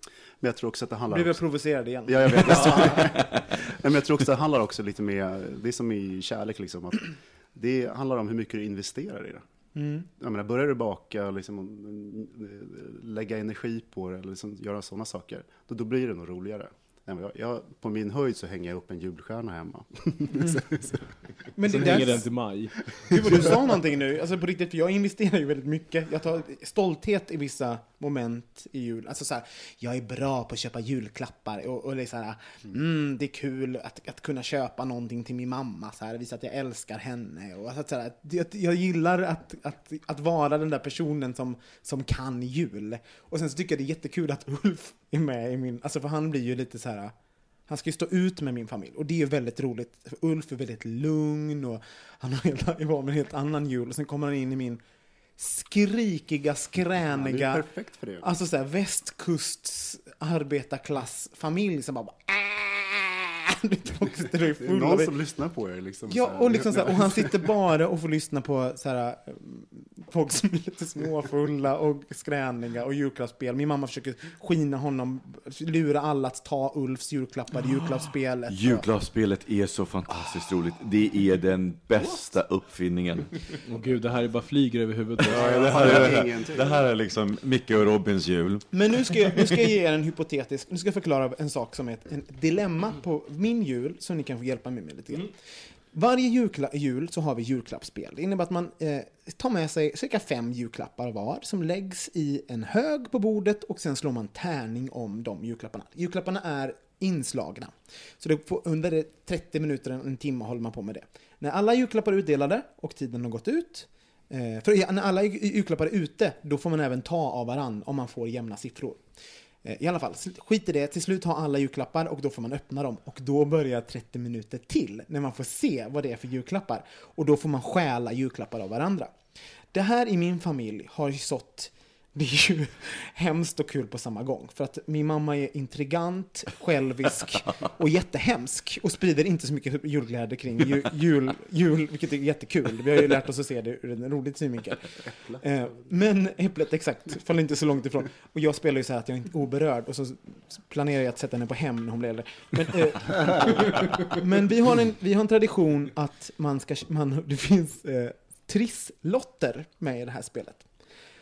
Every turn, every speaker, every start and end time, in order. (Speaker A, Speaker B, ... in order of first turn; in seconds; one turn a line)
Speaker A: 0.4-1.4
Speaker B: 1.1-3.1
Speaker A: 2.0-9.4
Speaker B: 9.8-10.1
Speaker A: 10.2-21.1
Speaker B: 21.5-22.3
Speaker C: 21.6-23.5
Speaker B: 23.1-47.1
Speaker B: 47.7-54.8
Speaker B: 55.4-57.7
Speaker A: 57.1-58.2
Speaker B: 58.2-65.1
Speaker A: 64.5-67.3
Speaker B: 66.1-78.8
Speaker D: 78.5-83.6
Speaker C: 83.6-86.2
Speaker A: 85.2-86.9
Speaker E: 85.5-89.5
Speaker B: 88.7-95.3
Speaker B: 95.9-119.0
Speaker B: 119.6-129.1
Speaker B: 129.7-160.7